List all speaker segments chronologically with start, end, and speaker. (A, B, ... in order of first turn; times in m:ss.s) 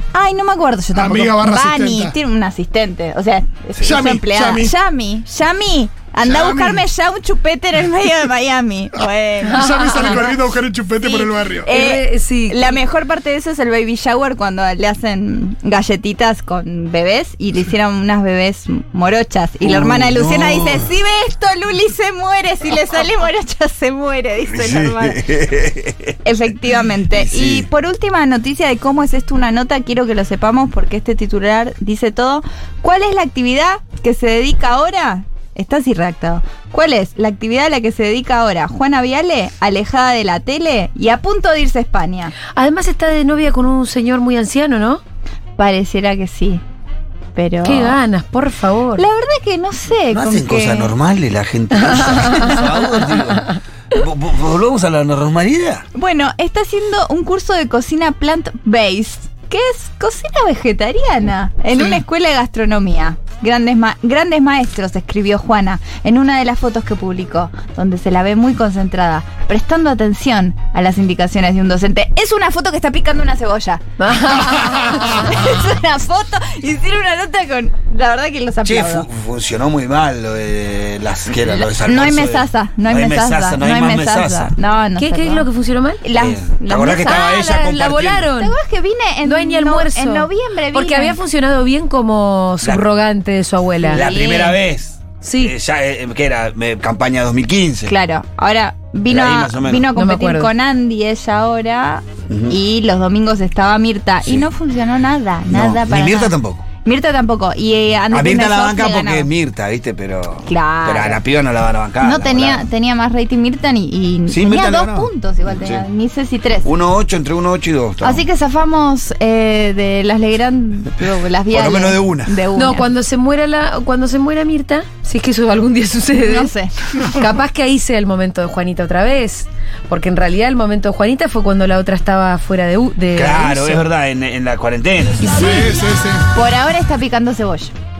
0:00.1-0:10.4 A
0:01.0-0:02.2 B
0:03.8-0:04.7 B
0:06.2-0:06.8 B
0:09.4-0:11.7 B
0:09.6-0:10.2 C
0:11.0-0:25.2 A
0:11.7-0:12.8 C
0:19.6-0:20.8 D
0:24.5-0:26.2 D
0:26.2-0:42.4 A
0:27.1-0:27.7 D
0:42.6-0:45.0 C
0:45.6-0:46.6 A
0:47.4-0:48.0 A
0:47.6-0:49.0 C
0:49.0-0:50.9 A
0:50.1-0:55.8 D
0:51.8-0:52.7 A
0:55.9-1:19.1 A
1:14.0-1:15.3 C
1:18.6-1:24.6 D
1:21.5-1:25.5 A
1:25.0-1:26.0 C
1:26.0-1:27.5 A
1:26.2-1:28.3 D
1:27.0-1:28.5 C
1:28.3-1:31.2 A
1:29.2-1:34.1 C
1:33.8-1:34.6 A
1:33.9-1:37.9 D
1:35.2-1:35.5 C
1:37.9-1:49.3 A
1:39.1-1:39.9 D
1:39.9-1:40.5 C
1:42.3-1:42.6 D
1:45.5-1:46.6 D
1:48.1-1:52.7 D
1:50.4-1:51.2 A
1:52.0-1:56.7 A
1:54.3-1:55.8 D
1:56.6-1:58.3 D
1:58.0-2:02.9 A
2:01.5-2:02.4 D
2:02.6-2:13.8 C
2:06.1-2:07.2 A
2:13.2-2:15.4 D
2:15.2-2:15.8 C
2:15.3-2:16.2 B
2:16.3-2:17.7 A